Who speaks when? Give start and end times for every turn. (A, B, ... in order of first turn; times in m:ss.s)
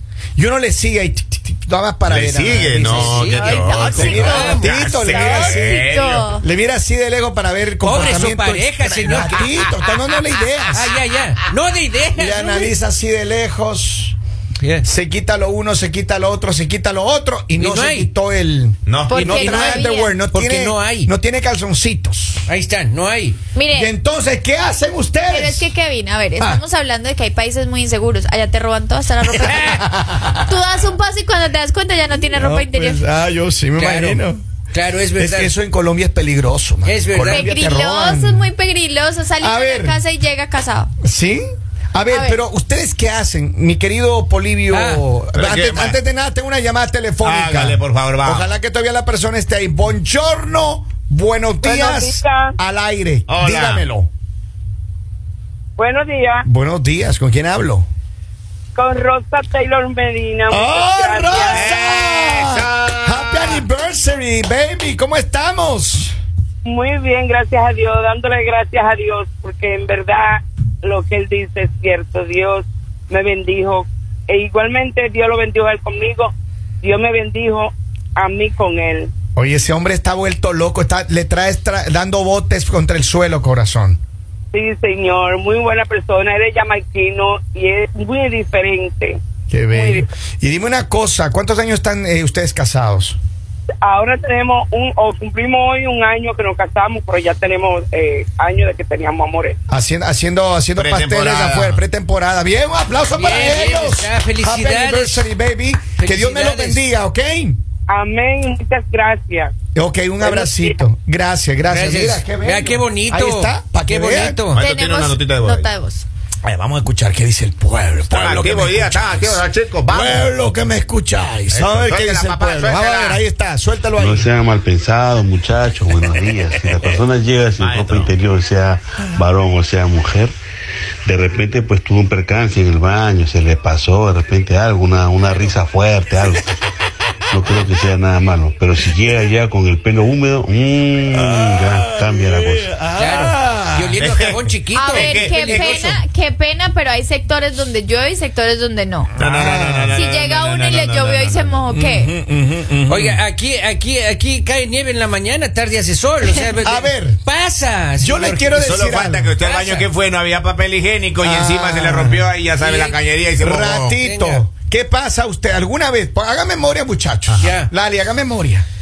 0:00.4-0:10.9 A
0:02.0-0:06.3 B
0:02.7-0:04.7 C
0:03.3-0:06.4 D
0:07.8-0:09.5 C
0:10.7-0:12.7 C
0:12.1-0:14.2 A
0:14.6-0:14.9 C
0:14.8-0:22.4 A
0:17.6-0:18.1 C
0:18.9-0:19.2 B
0:19.1-0:20.2 D
0:19.1-0:21.1 C
0:22.5-0:23.4 C
0:23.5-0:23.9 D
0:23.7-0:25.7 A
0:25.3-0:33.0 D
0:29.4-0:29.8 C
0:32.3-0:34.4 A
0:33.8-0:35.5 C
0:35.2-0:38.5 A
0:36.8-0:37.5 C
0:37.2-0:40.9 D
0:39.4-0:40.0 A
0:41.0-0:54.1 A
0:42.1-0:42.4 D
0:44.7-0:45.0 C
0:45.4-0:46.0 B
0:47.2-0:48.5 B
0:51.6-0:52.6 E
0:53.3-0:53.9 B
0:55.8-0:56.4 E
0:56.4-0:57.9 A
0:58.8-1:01.7 E
1:00.5-1:06.2 A
1:01.4-1:03.6 B
1:06.6-1:16.3 E
1:16.8-1:19.1 E
1:19.4-1:24.0 A
1:24.5-1:29.2 E
1:29.5-1:33.2 A
1:29.7-1:30.0 E
1:33.8-1:39.6 E
1:39.7-1:47.6 A
1:40.8-1:41.8 B
1:43.1-1:45.3 C
1:46.0-1:46.8 C
1:47.9-1:49.5 E
1:49.7-1:54.4 A
1:50.2-1:50.8 E
1:51.7-1:54.6 C
1:54.5-1:55.7 B
1:54.6-1:56.0 D
1:56.4-2:04.3 A
1:58.1-2:00.3 B
2:01.5-2:03.2 B
2:04.0-2:10.4 F
2:06.7-2:07.0 B
2:07.6-2:08.1 B
2:11.1-2:16.4 F
2:17.3-2:22.8 F
2:21.1-2:24.0 A
2:23.0-2:26.0 C
2:24.0-2:24.3 B
2:24.7-2:29.1 D
2:24.9-2:25.8 B
2:29.2-2:31.6 B
2:29.2-2:30.0 A
2:29.9-2:32.1 D
2:31.7-2:33.2 A
2:32.9-2:38.8 C
2:36.6-2:37.2 A
2:38.0-2:39.6 A
2:38.6-2:44.0 B
2:39.4-2:39.8 C
2:41.2-2:42.3 A
2:42.6-2:43.0 C
2:43.4-2:48.7 A
2:44.0-2:44.4 C
2:47.4-2:47.7 C